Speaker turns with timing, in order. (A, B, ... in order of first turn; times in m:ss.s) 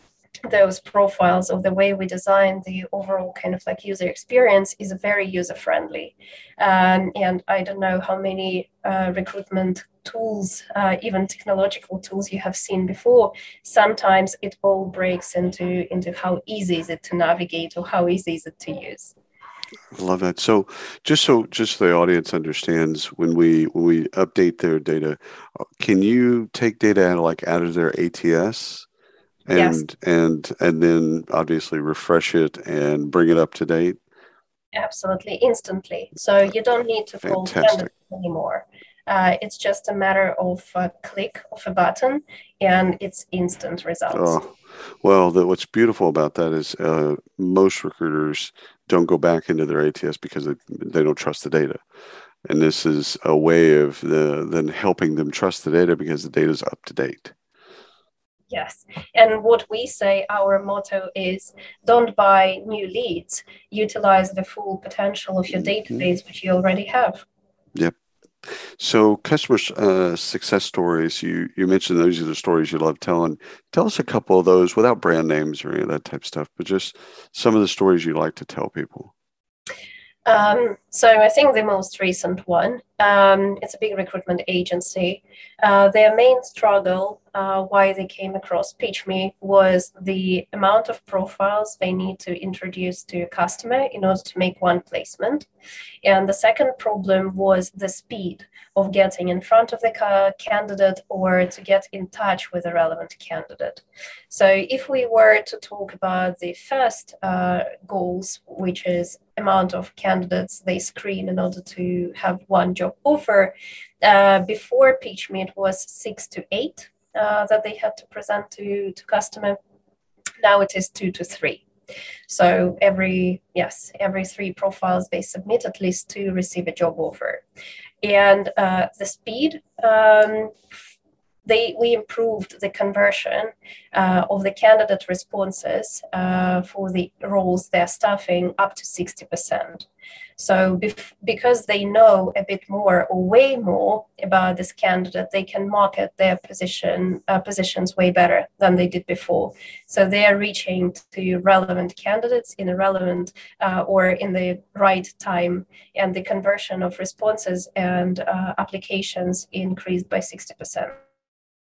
0:00.5-0:19.2 A
0:19.9-0:28.9 B
0:29.5-0:34.0 B
0:29.5-0:29.8 A
0:34.7-0:44.4 A
0:37.2-0:37.9 B
0:44.1-0:51.8 B
0:52.4-0:57.3 B
0:58.5-1:07.2 A
1:07.8-1:19.1 B
1:20.3-1:35.5 A
1:36.0-1:59.6 A
2:00.4-2:01.6 A
2:02.3-2:07.4 A
2:08.0-2:10.6 A
2:11.5-2:41.0 A